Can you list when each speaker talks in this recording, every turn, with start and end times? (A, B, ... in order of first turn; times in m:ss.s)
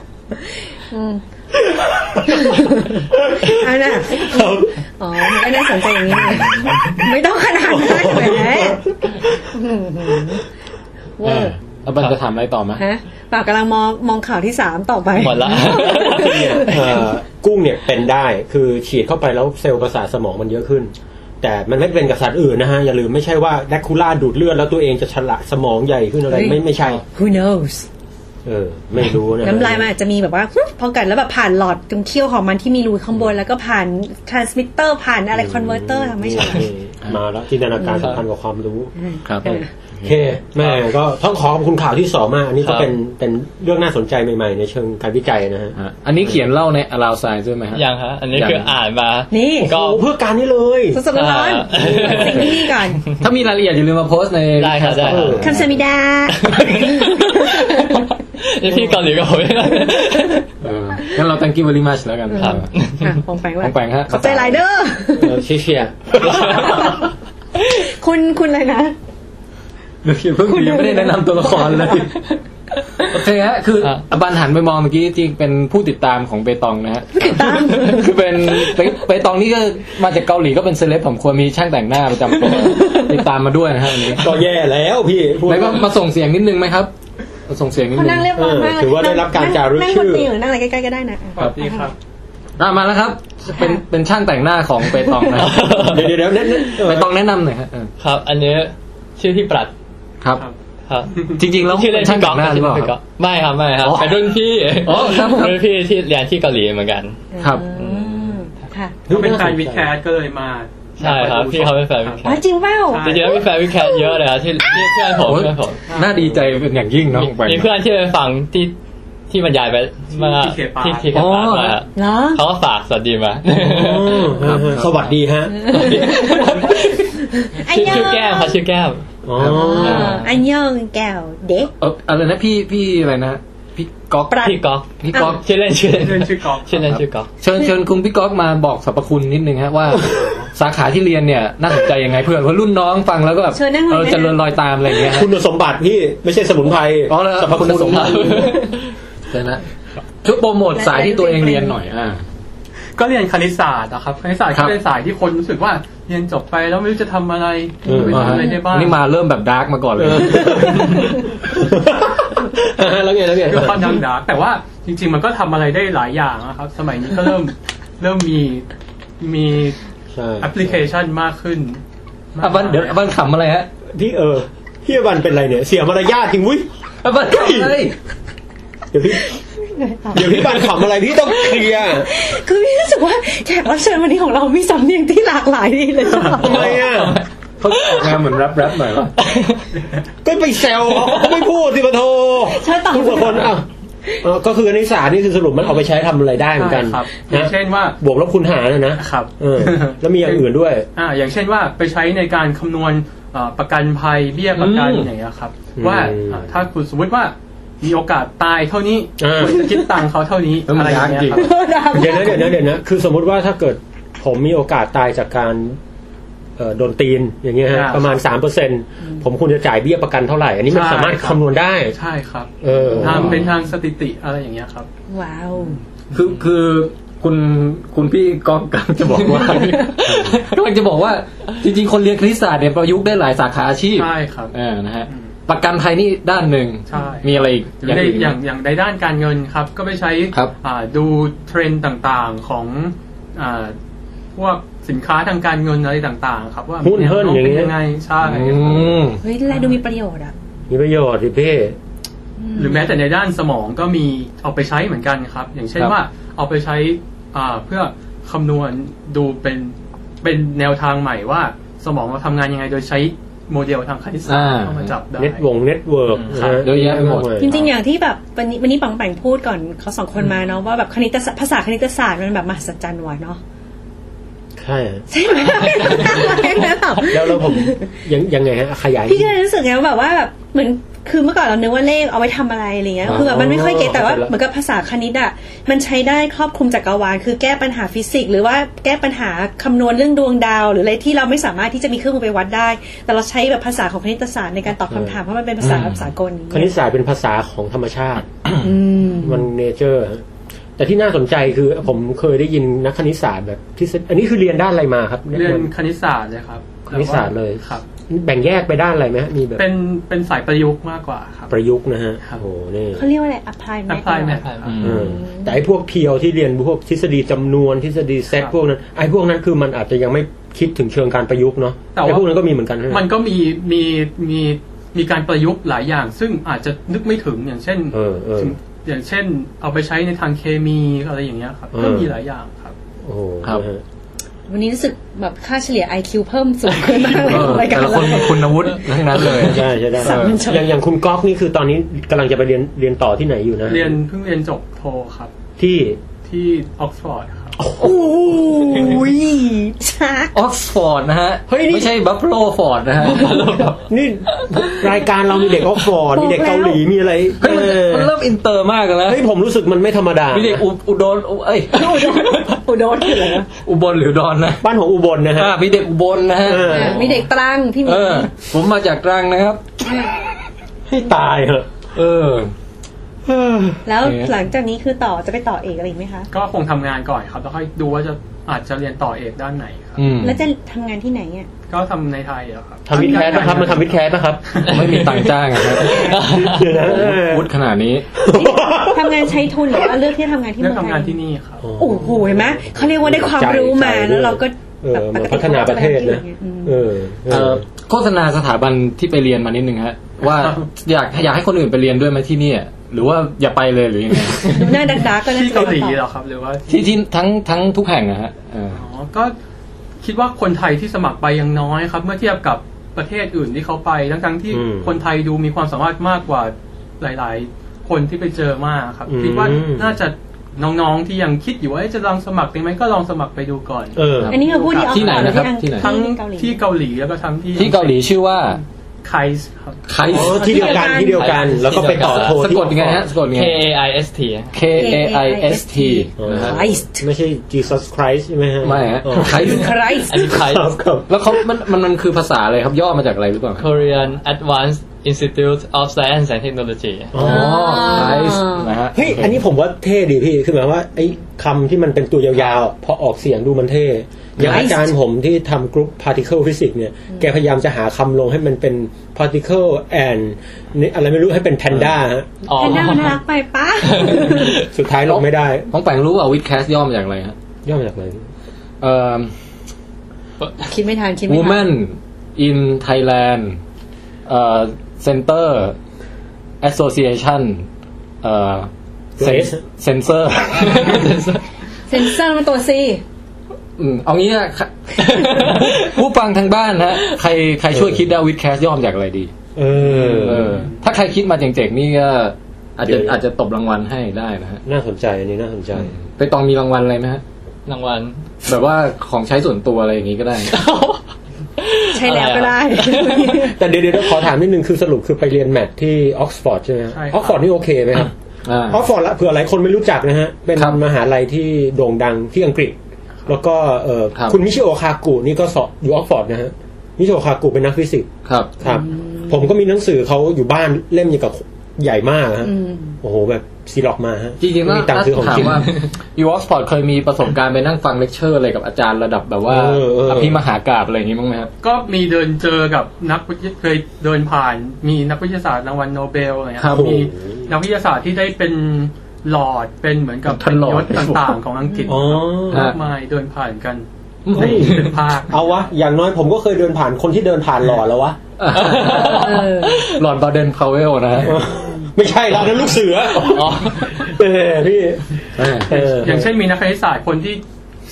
0:00.9-0:01.2 A
0:01.6-0:06.6 B
0:02.2-0:08.9 A
0:07.6-0:09.4 B
0:09.5-0:10.4 A
0:11.2-0:11.6 A
0:11.2-0:12.8 C
0:12.8-0:17.0 A
0:15.2-0:16.8 D
0:15.8-0:27.0 B
0:26.3-0:27.9 A
0:28.4-0:29.9 B
0:29.4-0:36.7 A
0:35.3-0:38.9 B
0:37.8-0:38.2 A
0:39.0-0:39.7 A
0:39.2-0:40.2 C
0:39.4-0:45.8 B
0:42.6-0:42.9 D
0:45.8-0:48.7 C
0:47.7-0:50.0 D
0:49.3-0:49.8 A
0:49.6-0:51.0 B
0:50.9-0:53.0 A
0:51.1-0:52.6 D
0:52.0-0:52.4 B
0:53.2-0:55.7 C
0:54.6-0:55.3 D
0:55.1-0:55.7 B
0:55.4-0:58.0 A
0:56.4-1:00.5 D
1:00.6-1:02.7 C
1:02.3-1:05.4 A
1:02.4-1:03.1 D
1:03.6-1:04.6 C
1:05.2-1:06.8 B
1:06.2-1:07.0 D
1:06.2-1:08.9 A
1:10.0-1:12.1 C
1:10.5-1:12.1 A
1:13.0-1:24.4 C
1:17.1-1:18.1 A
1:22.7-1:23.1 A
1:24.1-1:25.9 B
1:25.4-1:26.9 C
1:27.5-1:28.3 C
1:27.9-1:31.9 A
1:28.3-1:30.3 B
1:31.4-1:31.9 E
1:32.6-1:36.0 C
1:33.6-1:33.8 A
1:35.3-1:36.1 D
1:35.7-1:37.1 B
1:36.8-1:37.9 C
1:38.0-1:39.7 D
1:40.9-1:47.2 D
1:41.1-1:41.4 E
1:41.4-1:42.9 C
1:43.8-1:45.6 C
1:47.3-1:49.1 A
1:47.4-1:47.6 C
1:47.7-1:48.4 D
1:49.1-1:49.9 B
1:49.1-1:52.3 E
1:51.0-1:52.4 D
1:52.2-1:53.1 A
1:52.9-1:53.4 E
1:53.0-1:55.8 D
1:55.2-1:57.7 C
1:55.9-1:56.2 E
1:56.2-1:56.5 B
1:57.1-1:58.7 D
1:59.3-2:04.4 D
2:00.1-2:01.2 E
2:01.1-2:01.8 C
2:02.0-2:02.4 A
2:03.5-2:05.8 B
2:04.4-2:05.1 C
2:05.6-2:08.6 A
2:05.6-2:09.0 D
2:09.2-2:10.2 B
2:09.4-2:09.9 C
2:09.5-2:11.7 A
2:09.7-2:10.4 D
2:11.8-2:14.4 C
2:14.3-2:14.6 A
2:14.4-2:17.3 D
2:15.0-2:15.4 C
2:15.1-2:15.4 A
2:15.9-2:16.8 E
2:17.4-2:25.3 C
2:23.5-2:24.5 A
2:25.0-2:28.5 B
2:27.1-2:28.6 C
2:27.9-2:28.9 D
2:29.3-2:29.6 C
2:30.2-2:32.2 C
2:30.7-2:31.7 A
2:32.9-2:39.0 E
2:37.9-2:38.4 B
2:37.9-2:38.6 A
2:38.1-2:41.0 C
2:40.0-2:44.0 B
2:43.4-2:48.7 E
2:49.2-2:49.8 E
2:50.1-2:50.9 B
2:50.4-2:51.8 E
2:52.3-2:53.0 E
2:52.4-2:53.7 C
2:53.9-2:56.7 B
2:57.0-2:58.0 C
2:57.3-2:57.8 B
2:58.9-2:59.4 B
2:59.7-3:00.5 A
3:00.1-3:02.1 B
3:02.0-3:06.8 A
3:06.4-3:07.2 B
3:06.4-3:09.1 C
3:09.2-3:09.6 D
3:10.2-3:13.6 B
3:12.4-3:13.5 A
3:14.2-3:20.9 B
3:16.6-3:18.0 E
3:19.0-3:31.5 E
3:24.5-3:25.1 C
3:25.8-3:26.6 B
3:29.2-3:29.8 B
3:30.7-3:31.5 C
3:31.3-3:32.6 A
3:31.9-3:35.8 B
3:36.6-3:42.0 B
3:37.7-3:38.1 E
3:40.7-3:44.9 E
3:42.6-3:43.5 B
3:43.0-3:43.3 C
3:45.1-3:45.8 A
3:45.6-3:46.3 E
3:46.1-3:58.4 C
3:49.2-3:50.4 D
3:53.9-3:54.5 E
3:56.9-4:03.8 E
4:04.3-4:08.9 E
4:06.8-4:07.7 B
4:08.2-4:09.2 C
4:09.2-4:10.3 A
4:10.7-4:11.8 B
4:12.4-4:12.9 A
4:12.6-4:25.4 E
4:24.3-4:24.9 C
4:25.2-4:27.7 B
4:26.3-4:27.6 C
4:27.4-4:33.4 A
4:34.6-4:35.1 B
4:35.1-4:37.8 A
4:37.0-4:39.3 B
4:39.0-4:56.7 A
4:43.0-4:44.3 B
4:54.9-4:55.2 B
4:55.6-4:56.1 C
4:56.5-4:58.3 B
4:58.6-4:59.5 A
4:59.0-5:00.2 B
5:00.8-5:05.7 B
5:05.3-5:07.8 E
5:06.9-5:09.6 B
5:09.6-5:11.5 E
5:11.5-5:13.0 B
5:13.0-5:15.6 A
5:13.9-5:14.8 E
5:14.3-5:14.7 D
5:14.6-5:15.2 C
5:14.8-5:23.1 B
5:21.9-5:32.8 E
5:27.9-5:28.6 B
5:31.7-5:32.2 B
5:33.0-5:33.8 B
5:34.5-5:40.7 A
5:37.2-5:40.4 C
5:39.2-5:44.0 B
5:43.7-5:45.3 E
5:45.6-5:46.0 B
5:46.2-5:47.6 E
5:47.6-5:49.2 B
5:47.8-5:50.3 A
5:50.3-5:53.6 C
5:51.5-5:51.9 B
5:53.0-5:53.8 D
5:53.9-5:58.1 B
5:56.1-5:56.8 A
5:57.4-5:59.2 C
5:59.1-6:00.6 B
6:00.3-6:02.4 C
6:01.7-6:03.5 A
6:03.6-6:04.6 C
6:04.6-6:05.6 B
6:05.3-6:07.3 C
6:06.4-6:07.1 B
6:06.7-6:08.3 A
6:07.8-6:09.9 C
6:09.8-6:10.1 A
6:10.9-6:11.7 B
6:11.9-6:12.5 C
6:13.3-6:13.8 B
6:13.9-6:16.3 A
6:14.0-6:14.3 C
6:16.3-6:20.1 E
6:20.0-6:20.4 C
6:20.2-6:21.5 A
6:21.7-6:25.2 E
6:22.9-6:24.6 B
6:22.9-6:23.6 A
6:24.6-6:26.7 D
6:24.7-6:28.1 C
6:25.8-6:26.4 A
6:26.1-6:27.5 B
6:28.1-6:29.9 B
6:28.2-6:31.2 A
6:30.6-6:31.6 E
6:31.6-6:37.6 B
6:31.8-6:36.8 A
6:37.3-6:44.9 C
6:40.2-6:40.7 E
6:44.5-6:46.0 A
6:45.2-6:46.9 E
6:46.7-6:48.8 C
6:48.7-6:49.3 E
6:50.0-7:10.8 E
6:54.5-6:55.0 B
6:59.1-7:00.0 B
7:04.0-7:04.3 B
7:04.2-7:05.9 C
7:04.3-7:06.6 A
7:07.6-7:08.6 C
7:09.9-7:10.5 C
7:10.0-7:13.0 B
7:10.3-7:11.4 A
7:11.2-7:12.4 D
7:11.9-7:13.6 C
7:13.3-7:14.5 D
7:14.5-7:16.6 C
7:14.7-7:17.0 A
7:16.2-7:19.6 B
7:18.6-7:19.8 C
7:19.3-7:20.3 A
7:19.9-7:20.7 D
7:20.1-7:21.1 B
7:21.1-7:23.7 C
7:23.6-7:27.1 D
7:27.1-7:28.1 B
7:27.1-7:29.4 C
7:27.2-7:28.7 A
7:28.9-7:42.3 B
7:34.4-7:34.7 C
7:34.4-7:34.9 A
7:42.4-7:43.2 D
7:42.6-7:44.6 A
7:43.8-7:44.7 D
7:44.5-7:45.7 B
7:45.0-7:47.3 C
7:47.6-7:48.3 B
7:48.8-7:49.3 C
7:50.4-7:50.7 D
7:50.6-7:51.7 A
7:51.3-7:53.6 C
7:54.3-7:55.8 C
7:56.6-7:57.7 C
7:58.2-8:01.1 C
7:59.2-7:59.6 B
8:00.6-8:01.4 D
8:01.9-8:03.0 A
8:03.8-8:09.3 C
8:05.0-8:06.0 D
8:07.7-8:08.0 B
8:09.6-8:10.6 B
8:10.0-8:14.6 C
8:12.8-8:13.2 B
8:14.6-8:16.0 B
8:16.2-8:17.2 C
8:17.6-8:18.2 D
8:18.4-8:20.5 C
8:20.5-8:21.0 D
8:21.6-8:23.5 D
8:21.9-8:23.6 A
8:23.4-8:28.1 B
8:26.9-8:27.4 E
8:28.4-8:28.8 C
8:28.7-8:32.8 B
8:30.6-8:30.8 C
8:33.3-8:38.1 B
8:38.3-8:38.5 C
8:38.6-8:45.7 B
8:38.6-8:39.4 A
8:42.4-8:43.0 A
8:44.4-8:51.5 C
8:49.5-8:50.4 B
8:51.6-9:05.6 E
8:56.6-8:57.0 C
8:56.6-8:57.5 B
9:00.3-9:01.4 C
9:01.6-9:01.9 A
9:01.9-9:02.7 B
9:04.3-9:04.9 C
9:04.3-9:08.2 B
9:08.4-9:11.4 C
9:08.5-9:10.0 D
9:08.9-9:09.8 A
9:11.2-9:16.3 B
9:13.2-9:14.1 D
9:15.4-9:15.7 C
9:15.7-9:17.4 E